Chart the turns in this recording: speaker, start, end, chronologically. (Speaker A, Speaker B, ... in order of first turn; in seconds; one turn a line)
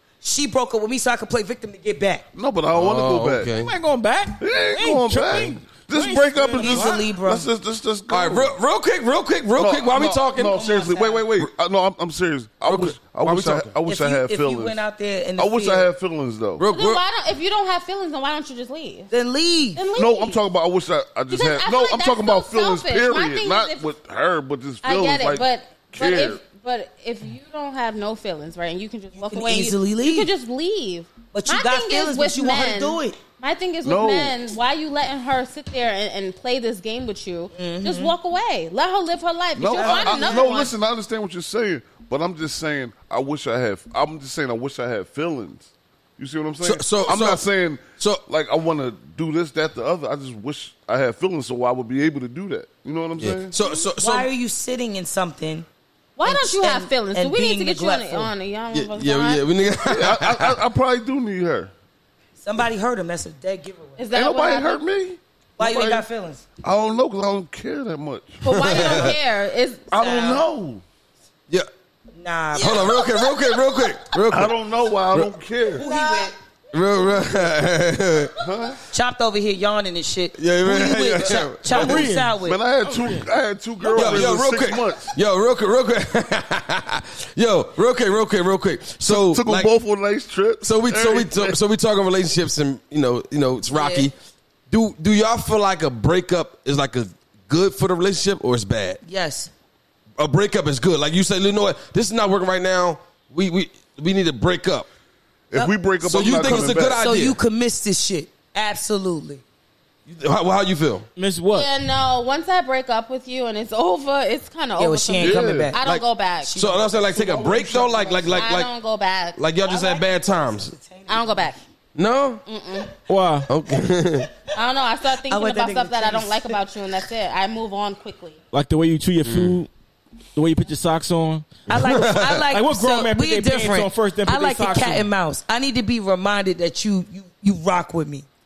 Speaker A: 0.2-2.2
Speaker B: 2.3-3.5
Speaker C: 2.7-3.7
Speaker D: 3.6-7.1
Speaker B: 4.4-8.5
Speaker A: 6.6-7.5
Speaker C: 8.1-10.6
Speaker B: 9.6-14.8
Speaker A: 10.5-11.3
Speaker C: 12.6-13.7
Speaker A: 13.8-15.9
Speaker B: 15.4-16.6
Speaker C: 16.6-17.0
Speaker E: 16.7-19.1
Speaker A: 19.1-19.8
Speaker E: 19.8-20.4
Speaker B: 19.9-26.4
Speaker E: 21.3-23.9
Speaker E: 24.8-40.7
Speaker A: 29.1-30.3
Speaker A: 31.3-33.2
Speaker B: 33.8-34.4
Speaker A: 37.5-38.1
Speaker B: 39.5-53.5
Speaker A: 39.7-40.5
Speaker C: 46.6-47.4
Speaker C: 53.2-54.3
Speaker E: 53.6-53.8
Speaker A: 54.0-55.7
Speaker E: 56.1-59.5
Speaker A: 56.2-58.3
Speaker C: 58.7-60.5
Speaker B: 59.8-61.7
Speaker A: 62.4-64.0
Speaker E: 64.0-64.8
Speaker B: 64.1-66.1
Speaker A: 65.6-66.4
Speaker B: 66.6-68.4
Speaker E: 68.4-70.2
Speaker C: 68.5-69.1
Speaker A: 68.8-69.1
Speaker B: 69.9-70.8
Speaker A: 70.0-70.4
Speaker A: 72.1-73.0
Speaker C: 72.5-74.5
Speaker E: 72.6-73.7
Speaker B: 74.3-75.8
Speaker A: 75.7-76.3
Speaker E: 75.8-76.3
Speaker C: 76.7-78.4
Speaker B: 78.4-78.8
Speaker A: 78.9-82.6
Speaker C: 80.4-82.0
Speaker D: 81.7-82.3
Speaker B: 81.8-85.1
Speaker D: 82.8-83.2
Speaker C: 83.9-89.7
Speaker B: 89.0-91.6
Speaker C: 90.6-94.1
Speaker A: 93.7-94.1
Speaker C: 94.7-99.0
Speaker A: 99.0-99.5
Speaker C: 100.2-104.9
Speaker B: 105.5-107.0
Speaker A: 105.5-109.4
Speaker C: 106.0-107.4
Speaker C: 110.1-111.1
Speaker D: 111.2-111.7
Speaker E: 111.5-116.5
Speaker A: 114.8-115.8
Speaker B: 115.2-115.7
Speaker A: 116.4-118.5
Speaker C: 116.5-118.7
Speaker E: 118.3-119.8
Speaker C: 119.4-120.7
Speaker A: 119.6-121.6
Speaker E: 121.1-121.6
Speaker C: 121.9-122.4
Speaker E: 122.5-122.9
Speaker D: 123.1-123.5
Speaker C: 123.5-124.3
Speaker E: 124.5-128.4
Speaker A: 125.3-126.6
Speaker D: 128.5-129.7
Speaker C: 129.2-129.6
Speaker D: 130.3-131.6
Speaker A: 131.7-138.2
Speaker C: 131.7-132.4
Speaker D: 132.4-135.1